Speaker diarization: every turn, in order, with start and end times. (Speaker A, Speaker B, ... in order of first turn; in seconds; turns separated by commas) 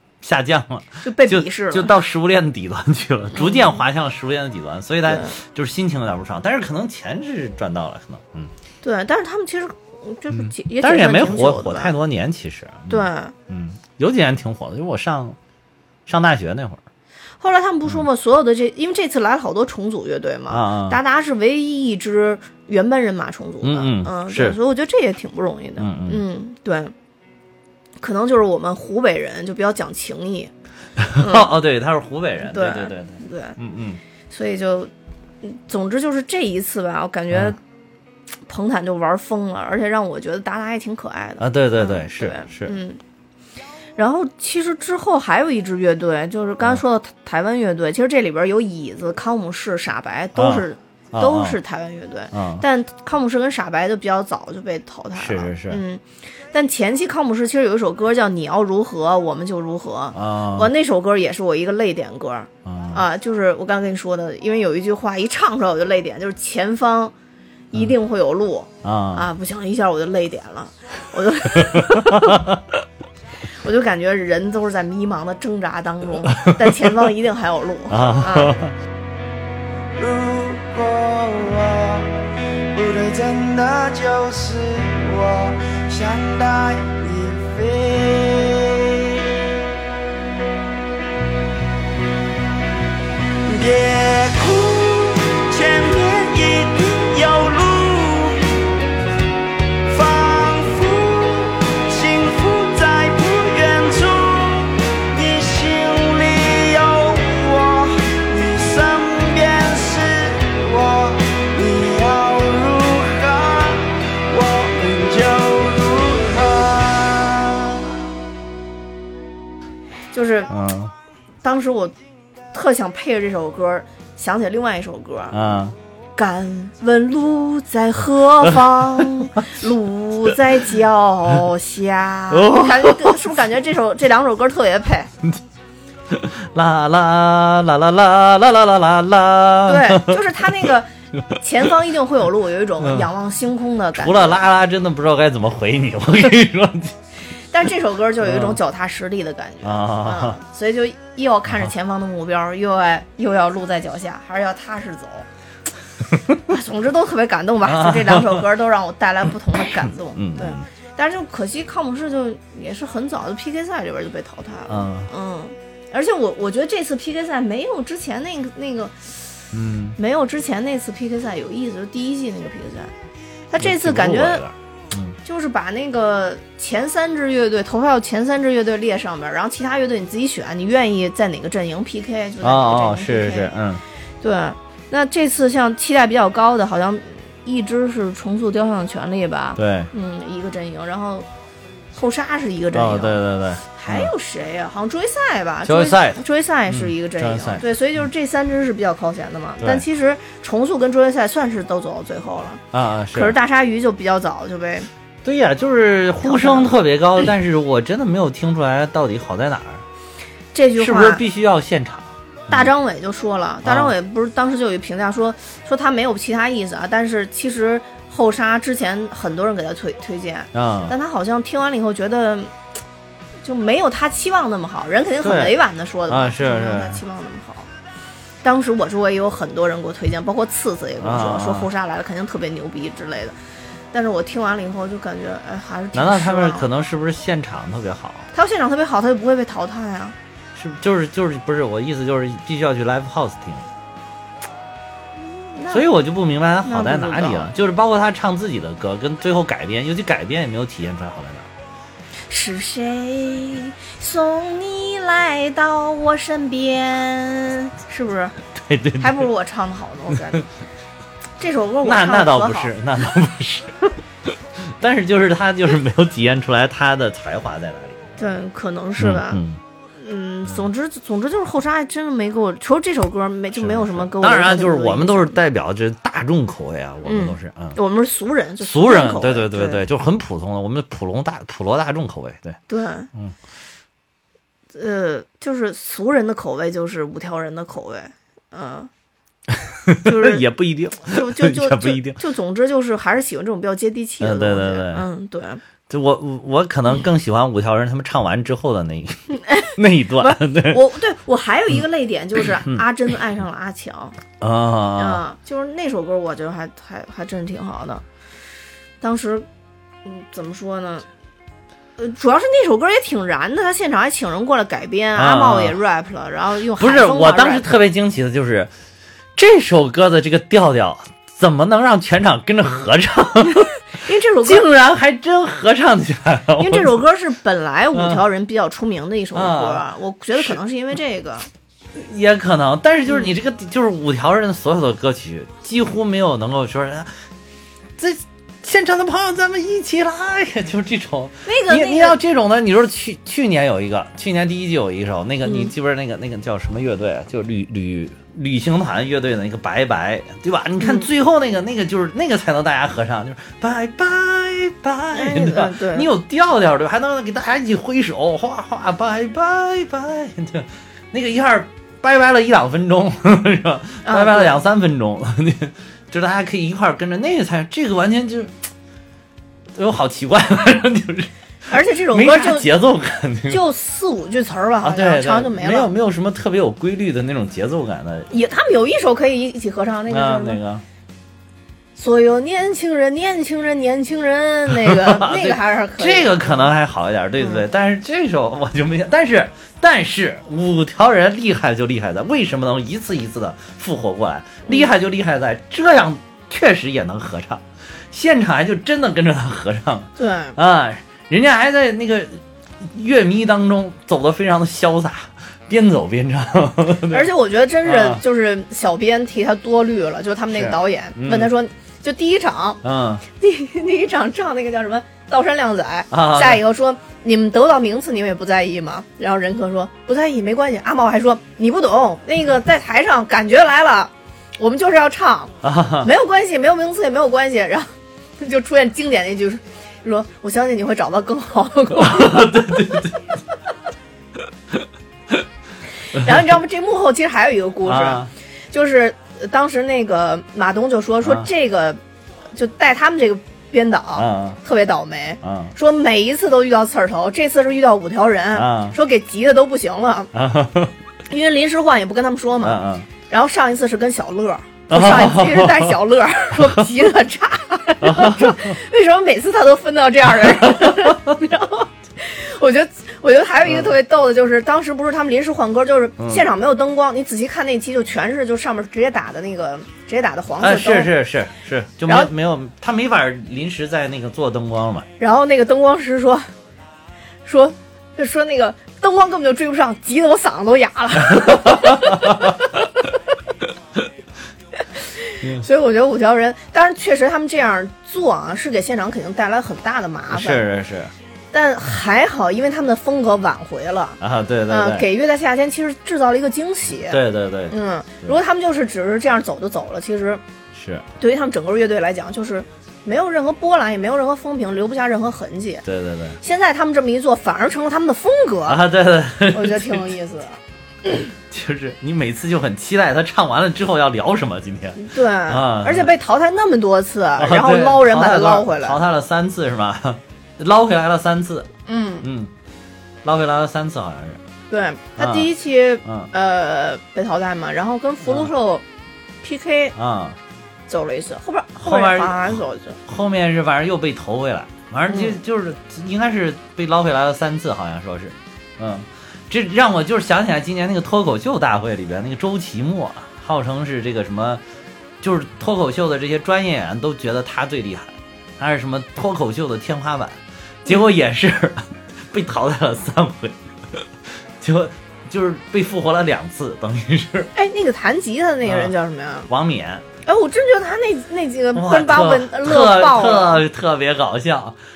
Speaker A: 0.2-8.5, Speaker B: 1.0-1.9, Speaker B: 3.3-3.8, Speaker B: 5.1-5.3, Speaker B: 8.8-11.9, Speaker A: 10.3-15.4, Speaker B: 12.9-13.3, Speaker A: 16.1-16.8, Speaker B: 17.4-26.9, Speaker A: 20.5-21.0, Speaker A: 23.6-24.6, Speaker A: 25.8-26.2, Speaker B: 28.0-30.5, Speaker A: 31.0-34.0, Speaker B: 31.2-31.5, Speaker B: 32.4-33.5, Speaker B: 34.3-34.9, Speaker B: 35.4-37.6, Speaker B: 38.5-43.0, Speaker A: 41.4-42.8, Speaker B: 44.0-67.1, Speaker A: 50.3-51.6, Speaker A: 52.3-52.6, Speaker A: 55.1-55.8, Speaker A: 60.1-60.7, Speaker A: 62.6-63.0, Speaker B: 67.7-72.3, Speaker A: 68.8-69.2, Speaker A: 71.6-72.6, Speaker B: 73.6-78.6, Speaker A: 77.9-78.8, Speaker C: 80.0-82.1, Speaker C: 82.7-89.2, Speaker C: 93.5-98.6, Speaker C: 99.9-117.8, Speaker B: 120.1-120.5, Speaker A: 120.5-120.9, Speaker B: 121.4-121.9, Speaker B: 122.5-125.4, Speaker A: 125.3-125.8, Speaker B: 126.2-135.1, Speaker A: 129.0-129.3, Speaker A: 132.3-133.1, Speaker A: 136.1-140.2, Speaker B: 139.7-144.4, Speaker A: 143.9-147.0, Speaker B: 147.5-155.2, Speaker A: 148.2-148.6, Speaker A: 149.6-150.4, Speaker B: 156.5-169.4, Speaker A: 157.6-158.4, Speaker A: 160.1-160.6, Speaker A: 164.7-165.1, Speaker A: 169.5-170.0, Speaker B: 170.0-172.9, Speaker B: 173.5-174.4, Speaker A: 173.6-175.2, Speaker B: 175.2-183.5, Speaker A: 182.4-183.8, Speaker B: 184.2-191.3, Speaker A: 189.6-189.9, Speaker B: 191.9-204.9, Speaker A: 192.7-194.1, Speaker A: 195.6-197.6, Speaker A: 202.7-203.3, Speaker A: 205.2-209.8, Speaker B: 206.2-206.7, Speaker B: 210.5-211.2, Speaker A: 210.8-212.7, Speaker B: 212.5-222.5, Speaker A: 213.6-213.9, Speaker A: 220.5-220.9, Speaker B: 223.4-227.7, Speaker A: 225.2-225.5, Speaker A: 226.1-227.0, Speaker B: 228.4-233.3, Speaker A: 231.0-231.7, Speaker B: 233.9-236.7, Speaker A: 235.9-238.3, Speaker B: 238.3-240.1, Speaker A: 240.6-243.7, Speaker B: 245.3-245.8, Speaker A: 245.7-251.5, Speaker B: 246.6-247.5, Speaker B: 252.3-258.3, Speaker A: 258.5-259.3, Speaker B: 259.0-260.4, Speaker A: 260.1-260.4, Speaker B: 261.4-262.7, Speaker A: 261.8-268.1, Speaker B: 268.2-269.4, Speaker A: 269.0-269.6, Speaker B: 269.9-275.4, Speaker A: 273.6-277.8, Speaker B: 277.1-279.8, Speaker A: 278.6-282.6, Speaker B: 282.7-283.1, Speaker B: 284.7-288.9, Speaker A: 289.6-292.2, Speaker B: 290.0-290.4, Speaker B: 291.0-295.6, Speaker A: 294.2-295.1, Speaker A: 295.9-300.8, Speaker B: 299.4-304.1, Speaker A: 304.4-305.2, Speaker B: 304.9-308.0, Speaker B: 309.0-309.5, Speaker B: 310.0-311.1, Speaker B: 312.0-317.6, Speaker A: 315.1-315.8, Speaker A: 316.8-318.7, Speaker A: 319.4-323.7, Speaker B: 324.0-324.7, Speaker A: 324.4-327.0, Speaker B: 326.6-331.5, Speaker A: 327.9-328.2, Speaker A: 329.3-329.8, Speaker A: 331.9-337.2, Speaker A: 338.0-368.6, Speaker B: 341.4-342.2, Speaker B: 345.4-345.7, Speaker B: 350.8-351.1, Speaker B: 355.1-356.1, Speaker B: 364.0-364.6, Speaker A: 369.7-371.3, Speaker B: 371.7-372.7, Speaker A: 372.1-373.6, Speaker B: 373.5-375.9, Speaker A: 374.8-378.3, Speaker B: 378.3-380.6, Speaker A: 380.1-380.8, Speaker B: 382.0-386.7, Speaker A: 384.8-407.3, Speaker B: 400.2-400.6, Speaker B: 407.1-412.8, Speaker A: 407.8-408.2, Speaker A: 410.5-411.5, Speaker A: 412.8-413.2, Speaker B: 413.3-432.9, Speaker A: 416.1-416.6, Speaker A: 425.6-426.1, Speaker A: 432.0-433.2, Speaker A: 434.7-435.4, Speaker B: 436.1-442.0, Speaker A: 437.8-438.3, Speaker B: 442.5-450.3, Speaker A: 444.1-444.6, Speaker A: 445.4-445.7, Speaker A: 448.5-448.9, Speaker A: 450.3-450.9, Speaker B: 451.3-471.1, Speaker A: 452.6-453.1, Speaker A: 454.9-455.9, Speaker A: 458.0-458.7, Speaker A: 460.7-461.1, Speaker A: 466.2-466.4, Speaker A: 470.6-475.1, Speaker B: 475.2-476.5, Speaker B: 477.4-482.2, Speaker B: 485.2-490.6, Speaker A: 490.3-491.1, Speaker B: 491.5-500.4, Speaker A: 494.2-495.1, Speaker A: 497.1-498.4, Speaker A: 500.7-501.0, Speaker B: 501.2-505.8, Speaker A: 505.8-506.4, Speaker B: 506.4-508.8, Speaker A: 508.7-510.1, Speaker B: 509.5-510.6, Speaker A: 511.5-516.1, Speaker B: 515.0-519.0, Speaker A: 517.4-521.7, Speaker B: 521.9-522.2, Speaker A: 522.2-522.5, Speaker A: 523.2-524.4, Speaker B: 524.7-528.8, Speaker A: 525.2-525.5, Speaker A: 526.0-526.3, Speaker B: 529.4-529.9, Speaker A: 530.0-530.4, Speaker B: 530.9-533.0, Speaker A: 531.8-544.6, Speaker B: 535.1-535.4, Speaker A: 545.2-554.1, Speaker A: 554.6-557.5, Speaker B: 557.5-559.5, Speaker A: 558.6-558.9, Speaker A: 559.5-560.0, Speaker B: 560.2-563.6, Speaker A: 561.7-564.8